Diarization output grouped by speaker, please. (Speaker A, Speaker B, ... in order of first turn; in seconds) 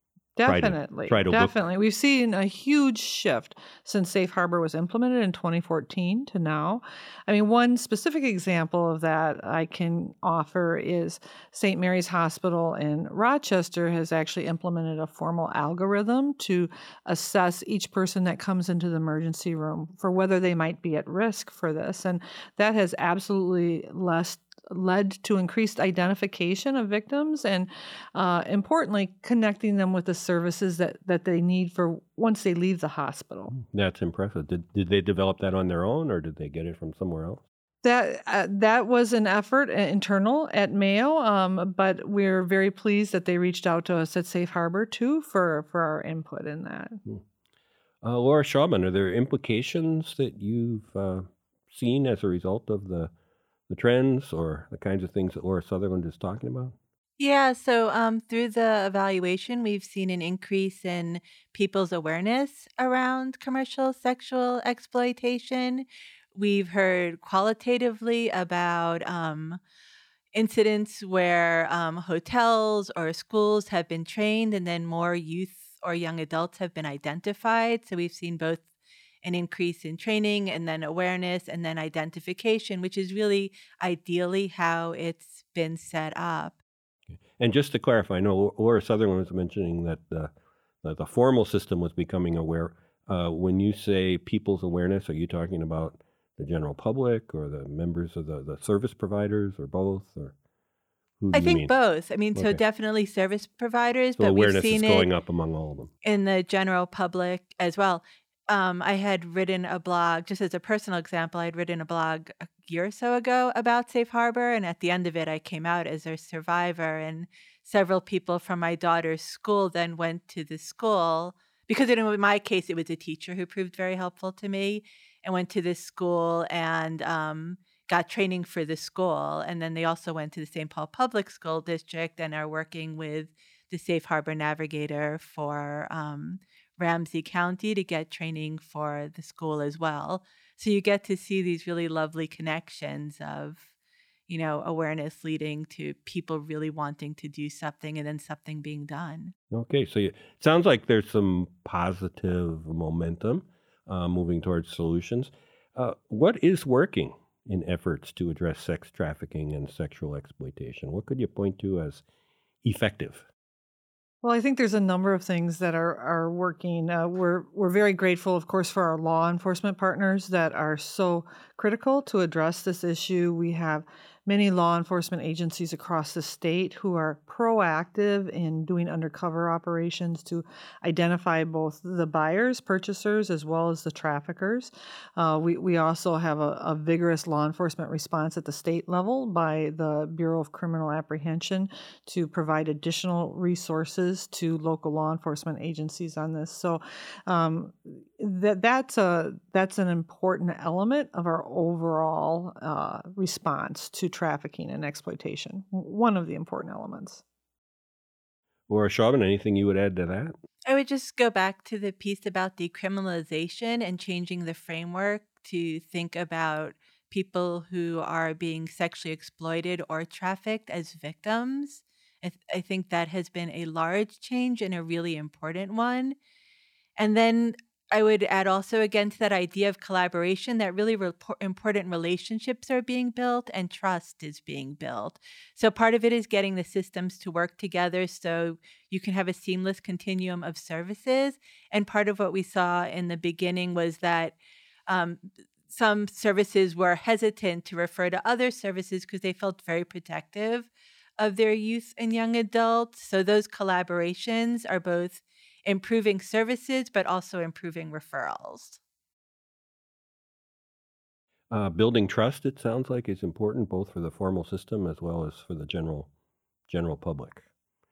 Speaker A: 0.4-33.5, 37.8-47.0, 164.2-207.2
Speaker B: 0.5-1.6, 33.5-37.4, 48.0-53.1, 53.7-56.8, 87.2-90.3, 90.8-100.3, 101.2-101.7, 104.2-105.9, 149.5-162.0, 162.6-163.2, 208.7-210.3, 261.5-266.1, 266.7-267.4
Speaker C: 57.2-69.6, 70.3-78.7, 79.2-86.6, 101.3-105.1, 106.0-143.7, 144.3-149.3, 210.7-226.2, 227.0-244.3, 244.9-258.8